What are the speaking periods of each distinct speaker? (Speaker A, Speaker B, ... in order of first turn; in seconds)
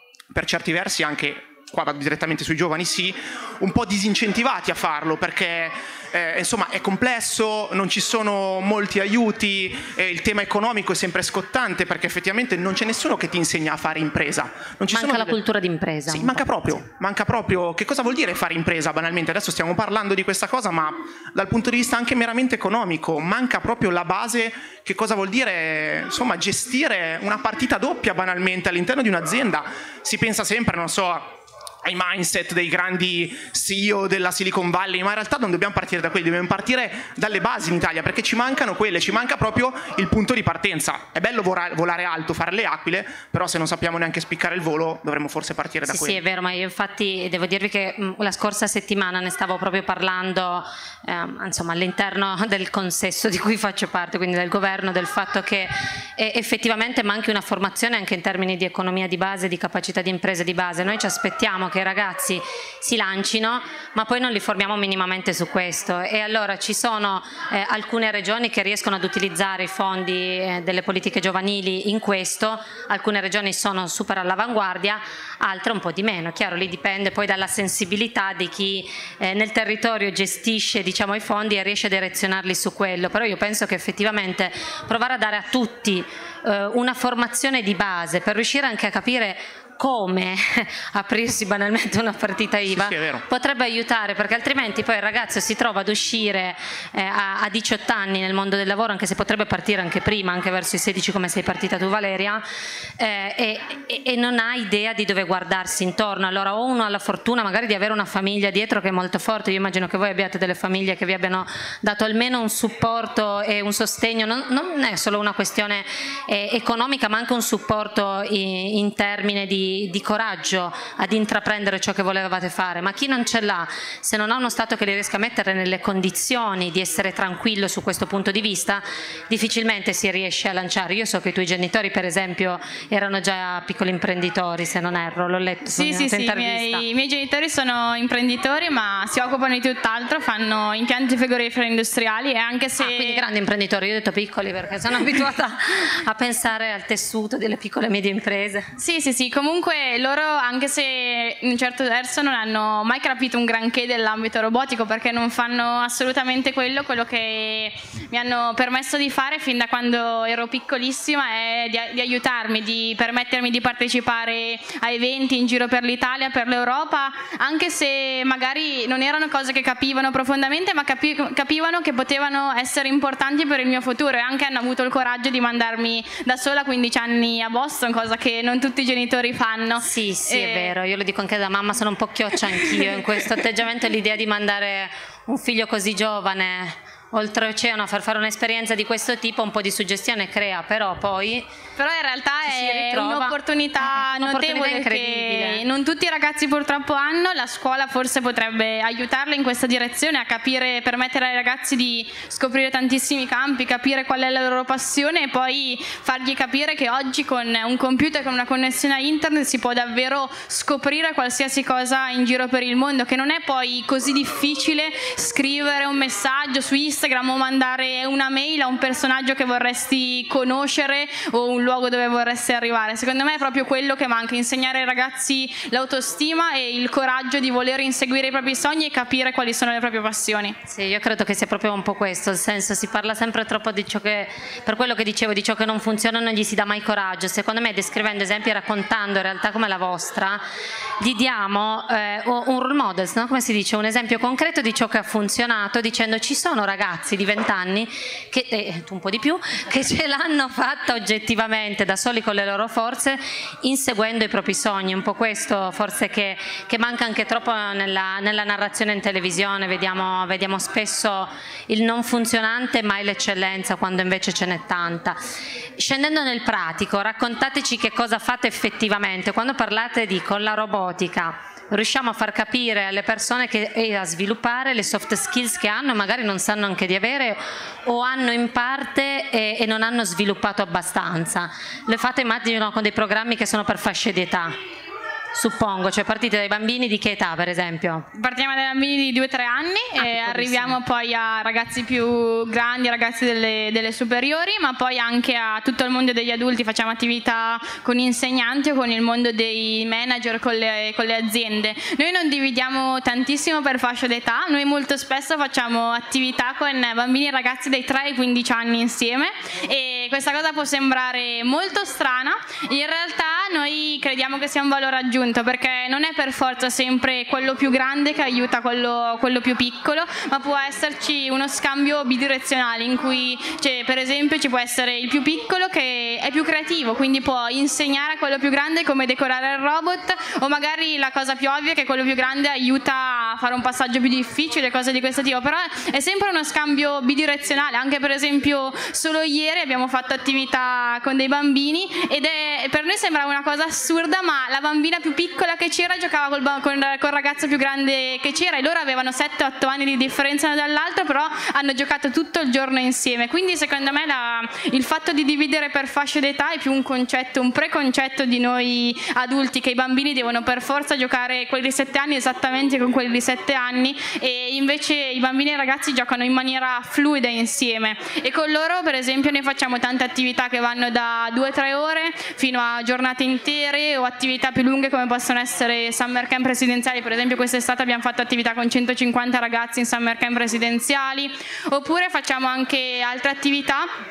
Speaker A: 0.3-15.4, 16.1-46.2, 92.7-93.2
Speaker B: 14.9-16.8, 45.9-102.5, 103.0-136.8, 142.8-148.7, 179.8-191.5, 192.4-195.6, 230.7-240.4, 241.0-265.2, 265.8-284.6, 285.3-288.1, 290.0-290.8
Speaker C: 135.7-143.3, 148.8-180.7, 191.8-230.6, 288.1-383.9